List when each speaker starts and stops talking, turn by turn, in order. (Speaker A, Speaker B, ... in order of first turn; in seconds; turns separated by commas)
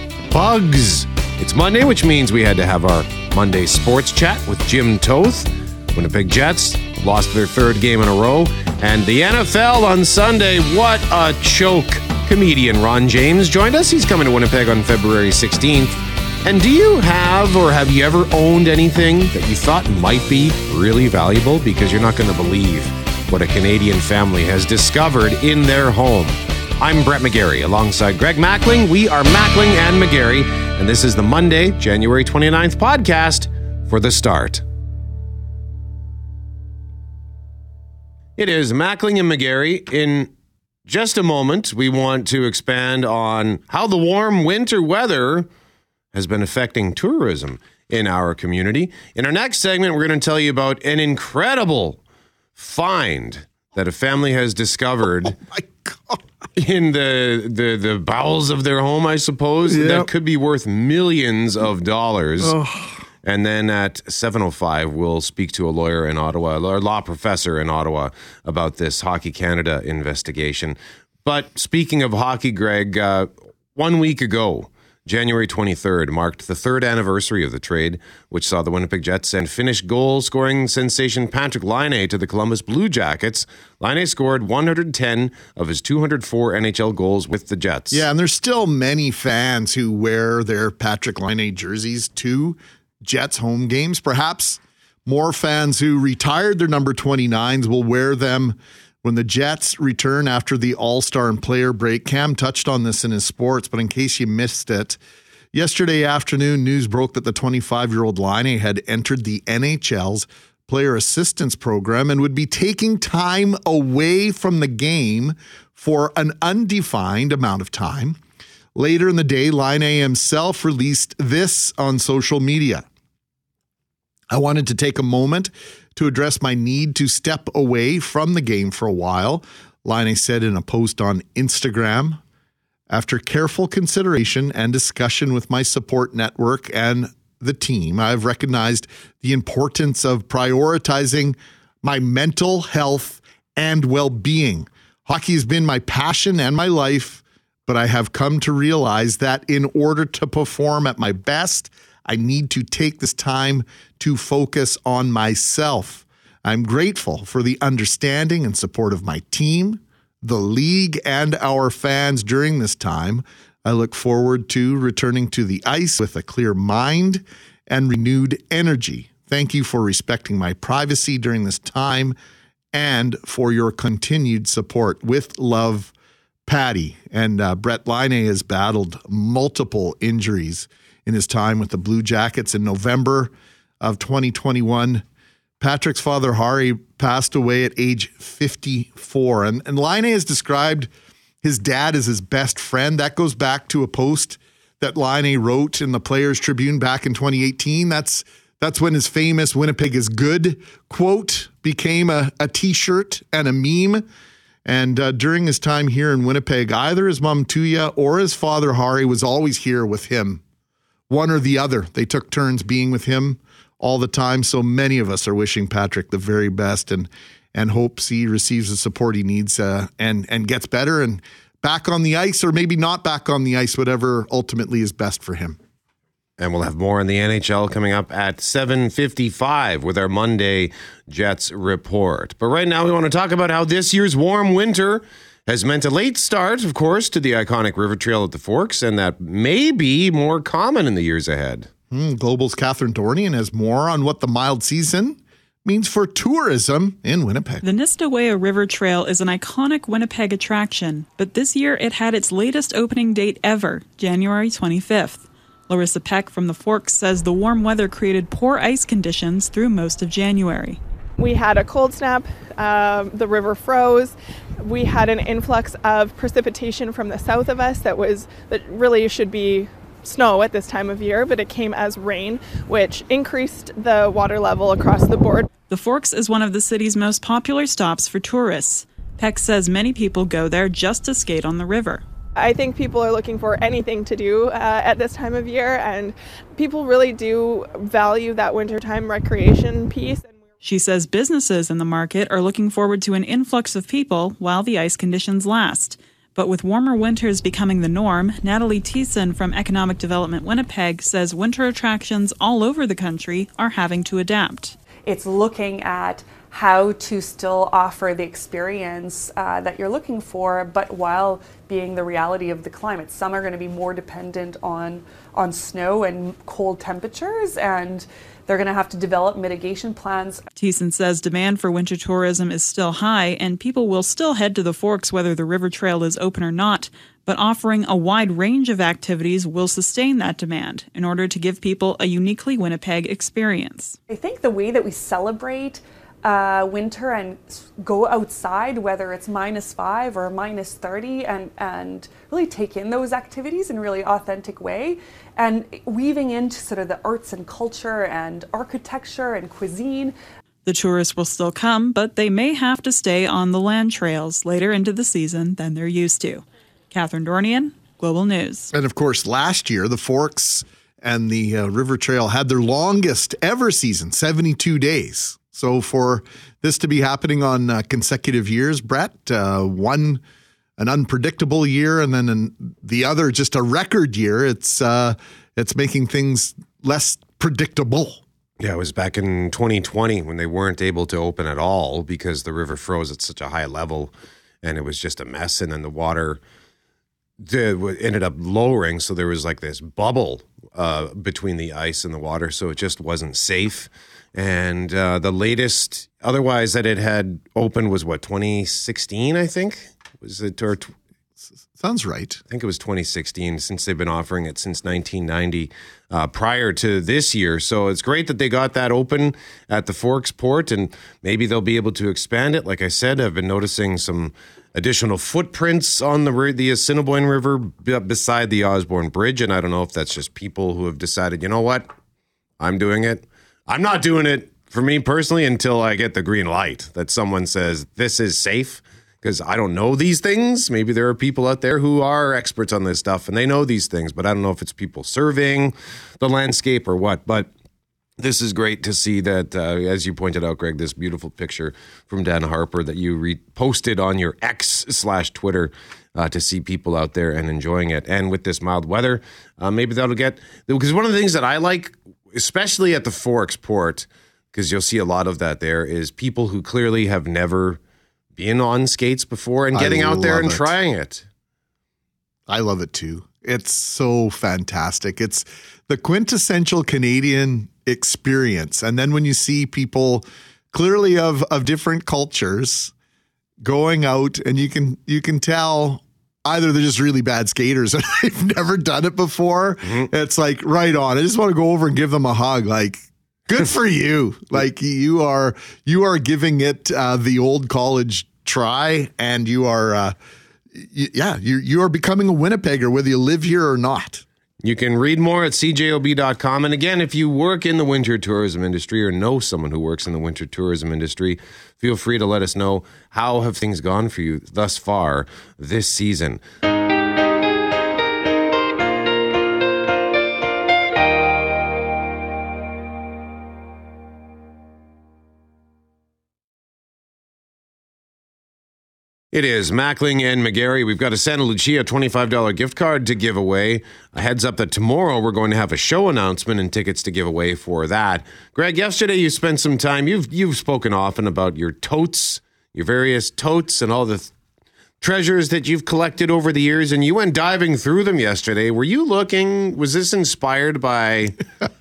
Speaker A: 0.3-34.6, Speaker A: 38.4-40.3, Speaker A: 40.9-45.5, Speaker A: 46.1-52.0, Speaker A: 52.5-55.4, Speaker B: 55.2-56.2, Speaker A: 56.5-62.6, Speaker B: 59.7-60.1, Speaker B: 62.4-63.0, Speaker A: 63.2-88.0, Speaker B: 87.9-105.0, Speaker B: 105.5-118.2, Speaker B: 118.8-122.9, Speaker B: 124.3-132.2, Speaker B: 132.9-172.2, Speaker B: 172.7-175.9, Speaker B: 176.5-185.0, Speaker B: 185.6-190.9, Speaker B: 191.4-204.1, Speaker B: 204.7-210.4, Speaker B: 211.1-225.6, Speaker A: 226.4-241.7, Speaker B: 241.9-247.6, Speaker C: 247.6-260.8, Speaker D: 261.2-275.4, Speaker C: 275.7-282.0, Speaker D: 282.4-290.4, Speaker C: 290.6-304.8, Speaker E: 305.1-320.4, Speaker C: 320.6-334.0, Speaker E: 334.1-350.1, Speaker C: 350.6-358.7, Speaker B: 358.7-370.2, Speaker B: 370.8-378.2, Speaker A: 378.6-386.4, Speaker A: 387.4-400.9, Speaker B: 401.7-402.4, Speaker A: 402.5-421.9, Speaker A: 422.6-437.5, Speaker A: 438.2-457.8, Speaker A: 458.4-461.2, Speaker B: 459.7-460.7, Speaker B: 462.5-472.9, Speaker B: 473.6-490.2, Speaker B: 490.7-494.2, Speaker A: 494.6-506.4, Speaker A: 519.3-534.3, Speaker A: 535.0-541.4